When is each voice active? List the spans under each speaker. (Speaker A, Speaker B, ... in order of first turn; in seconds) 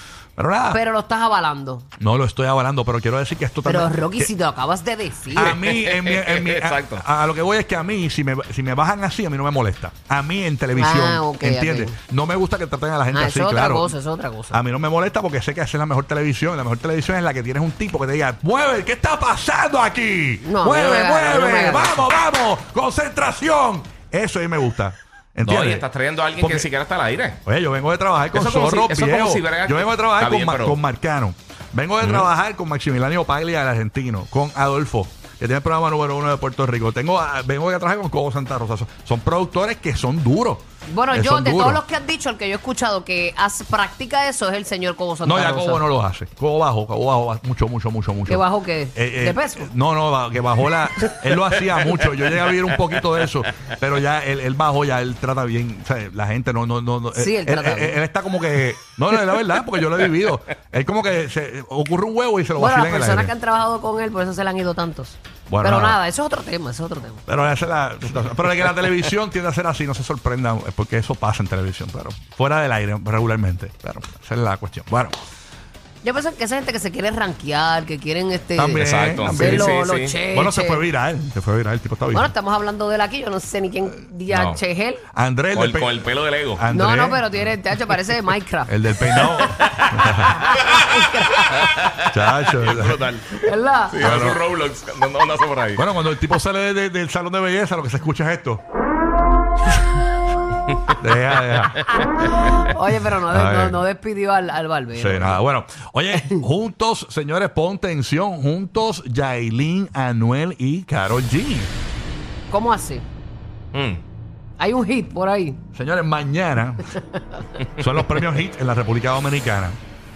Speaker A: 0.4-0.8, 2.0-4.3, 5.3-14.0, 14.5-25.9, 26.4-26.7, 27.4-41.8, 45.2-63.3, 65.5-66.0, 67.3-75.2, 78.5-79.8, 80.3-82.3, 85.1-86.0, 86.5-87.4, 88.7-90.4, 92.1-93.0, 94.0-94.4, 95.8-98.6, 101.0-101.9, 103.3-103.8, 104.9-111.7, 115.8-117.0, 117.8-119.8
Speaker B: 0.7-1.9, 3.6-5.6, 10.8-12.0, 13.1-14.6, 20.4-22.0, 40.9-45.8, 48.3-49.7, 57.1-58.0, 62.6-67.2, 76.0-80.8, 82.1-85.0, 86.7-91.9, 93.4-94.0, 102.6-105.4, 112.5-113.0, 114.6-115.6
Speaker C: 5.4-7.0, 25.4-27.4, 28.3-30.8, 32.0-32.3, 51.9-53.2, 78.8-80.2, 84.3-84.6, 85.5-86.7, 89.4-90.8, 91.6-95.8, 101.9-102.5, 113.7-114.0